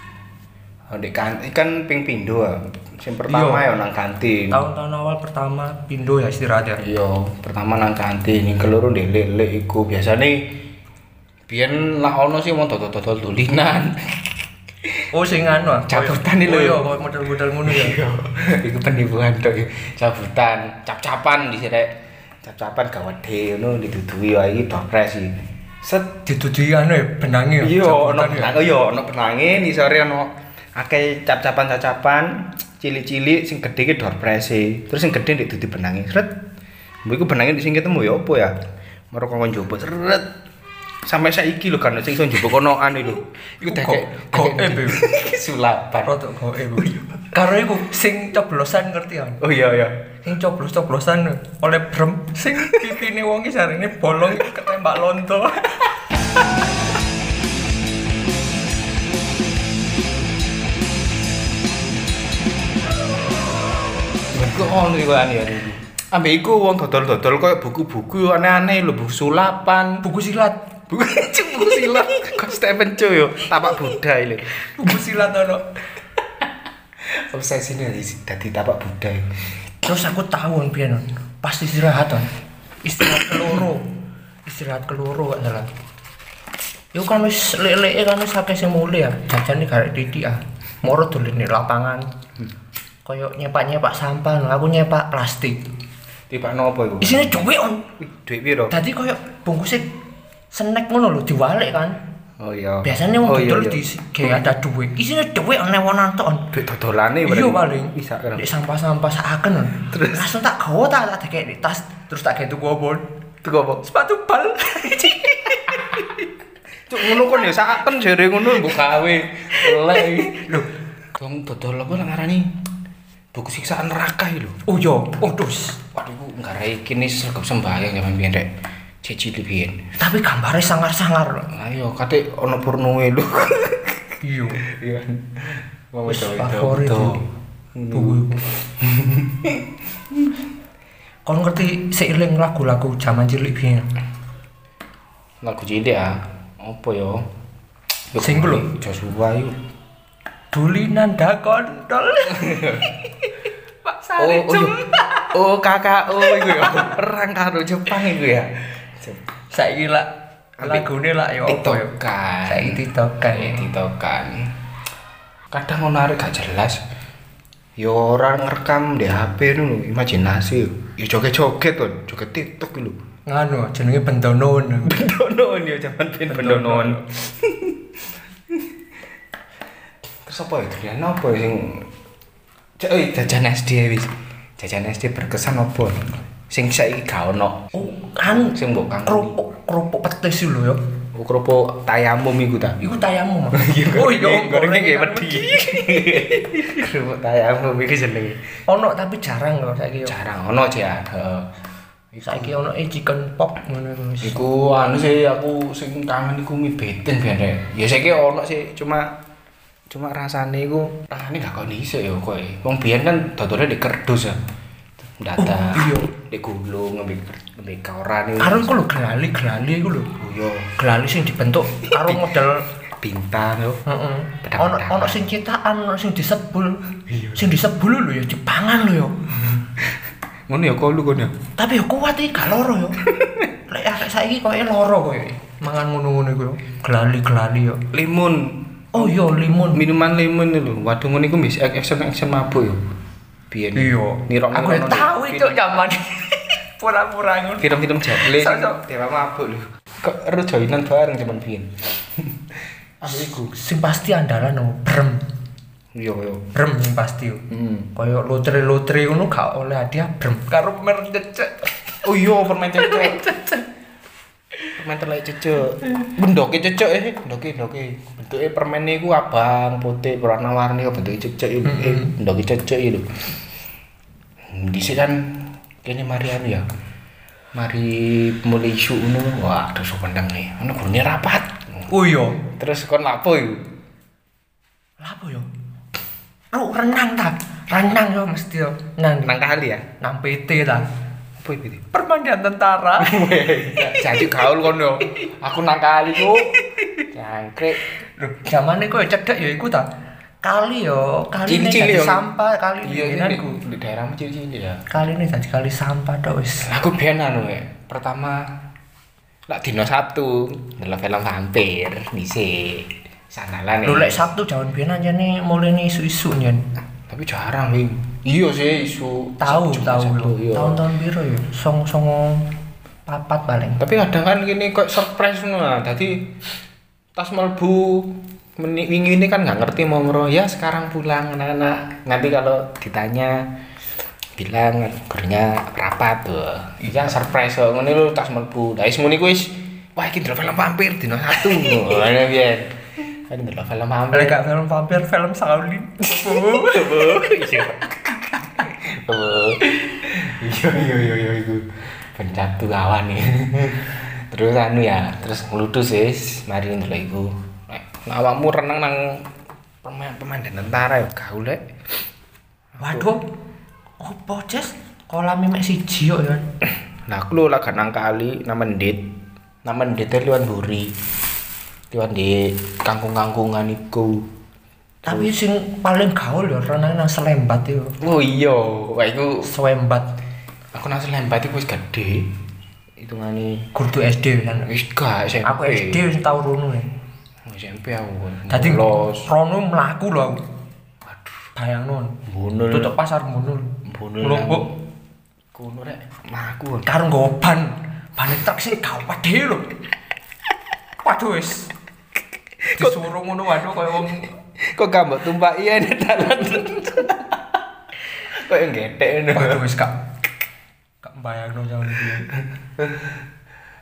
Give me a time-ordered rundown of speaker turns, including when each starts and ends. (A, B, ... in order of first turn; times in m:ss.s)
0:00.9-0:04.6 A
0:03.3-0:03.7 B
0:04.5-0:06.8 B
0:06.8-0:10.5 A
0:11.5-0:14.3 A
0:15.1-0:18.0 B
0:15.9-0:16.8 A
0:17.6-0:26.2 A
0:26.2-0:28.6 B
0:27.6-0:36.4 A
0:37.0-0:38.6 A
0:39.1-0:40.3 A
0:41.0-0:46.2 A
0:43.6-0:45.0 B
0:46.0-0:49.4 B
0:46.7-0:47.3 A
0:49.4-0:50.1 A
0:50.2-0:56.1 B
0:52.6-0:53.0 A
1:04.3-1:10.1 A
1:10.0-1:10.6 B
1:10.9-1:14.5 A
1:14.6-1:15.7 B
1:17.0-1:19.2 A
1:19.8-1:22.3 B
1:22.8-1:23.9 B
1:24.4-1:25.7 B
1:26.9-1:32.1 B
1:33.0-1:35.6 B
1:36.3-1:37.4 A
1:37.0-1:37.9 B
1:38.0-1:38.8 A
1:38.7-1:39.9 B
1:40.5-1:42.0 B
1:42.4-1:43.8 A
1:42.8-1:46.5 B
1:46.5-1:48.4 A
1:47.2-1:53.1 B
1:49.9-1:50.3 A
1:53.4-1:53.8 A
1:53.8-1:56.2 B
1:56.9-2:02.6 A
1:59.7-2:00.6 B
2:03.3-2:04.6 A
2:04.7-2:05.8 B
2:05.9-2:08.5 A
2:09.0-2:09.8 A
2:10.0-2:11.5 B
2:11.5-2:17.2 A
2:14.2-2:14.6 B
2:16.1-2:17.2 B
2:17.8-2:20.2 A
2:17.9-2:18.5 B
2:21.2-2:23.9 B
2:25.4-2:27.3 A
2:28.1-2:29.6 A
2:28.2-2:28.7 B
2:30.5-2:33.3 B
2:32.3-2:32.8 A
2:33.8-2:35.3 B
2:34.2-2:34.8 A
2:35.3-2:39.2 A
2:36.2-2:36.8 B
2:39.5-2:41.9 B
2:40.6-2:40.9 A
2:41.4-2:44.6 A
2:42.4-2:43.7 B
2:45.5-2:46.8 A
2:47.8-2:53.0 A
2:53.2-2:55.0 B
2:54.8-2:57.8 A
2:56.3-2:57.0 B
3:00.2-3:01.9 A
3:02.8-3:09.4 A
3:07.7-3:10.8 B
3:11.1-3:12.8 A
3:12.8-3:16.4 B
3:13.5-3:18.5 A
3:18.7-3:20.1 B
3:20.0-3:21.5 A
3:22.1-3:22.6 A
3:22.2-3:24.4 B
3:24.2-3:29.2 A
3:29.9-3:34.4 A
3:35.0-3:38.7 A
3:35.4-3:36.1 B
3:38.4-3:40.1 B
3:40.2-3:40.7 A
3:40.8-3:42.7 B
3:42.0-3:42.3 A
3:43.0-3:43.8 A
3:43.8-3:49.2 B
3:44.4-3:45.2 A
3:47.1-3:47.5 A
3:49.4-3:49.8 A
3:50.5-3:51.4 A
3:51.6-3:53.0 B
3:53.1-3:53.4 A
3:53.7-3:57.8 B
3:57.9-3:59.2 A
3:58.9-3:59.8 B
3:59.7-4:02.8 A
4:03.5-4:05.6 A
4:03.7-4:08.8 B
4:07.6-4:13.5 A
4:13.1-4:15.2 B
4:15.9-4:16.4 A
4:16.5-4:17.4 B
4:17.5-4:17.9 A
4:17.9-4:22.0 B
4:22.0-4:23.3 A
4:22.8-4:23.7 B
4:24.7-4:33.1 A
4:31.6-4:32.2 B
4:34.5-4:36.7 A
4:37.5-4:41.6 A
4:41.9-4:42.4 B
4:42.5-4:43.6 A
4:45.0-4:45.5 B
4:46.5-4:49.3 B
4:49.2-4:49.9 A
4:50.0-4:50.8 B
4:51.4-4:51.8 A
4:51.9-4:53.2 B
4:53.0-4:57.8 A
4:53.8-4:54.2 B
4:56.5-4:57.0 B
4:58.0-4:59.9 B
5:00.4-5:03.6 B
5:01.4-5:02.2 A
5:02.8-5:04.8 A
5:04.9-5:06.7 B
5:06.6-5:08.6 A
5:09.5-5:14.2 A
5:13.8-5:16.7 B
5:17.1-5:20.8 A
5:19.4-5:22.5 B
5:23.1-5:23.8 B
5:23.8-5:26.3 A
5:27.2-5:33.5 A
5:34.4-5:44.4 A
5:44.1-5:47.4 B
5:46.0-5:59.3 A
5:59.8-6:01.6 A
6:02.8-6:03.1 A
6:02.8-6:03.2 B
6:04.0-6:06.4 B
6:07.1-6:09.1 A
6:09.6-6:10.9 A
6:11.9-6:14.3 A
6:15.0-6:15.3 A
6:15.1-6:17.9 B
6:18.0-6:19.5 A
6:19.4-6:20.1 B
6:20.7-6:22.3 A
6:23.0-6:23.7 A
6:23.7-6:24.7 B
6:24.5-6:26.0 A
6:25.4-6:26.9 B
6:27.4-6:29.3 A
6:28.5-6:30.4 B
6:31.6-6:32.2 B
6:32.3-6:32.9 A
6:32.7-6:34.7 B
6:33.8-6:34.7 A
6:35.5-6:36.9 A
6:36.8-6:39.7 B
6:41.0-6:41.7 B
6:42.6-6:43.0 A
6:42.7-6:44.3 B
6:44.6-6:47.6 A
6:48.2-6:49.7 A
6:49.3-6:50.0 B
6:51.0-6:52.3 B
6:52.8-6:53.1 A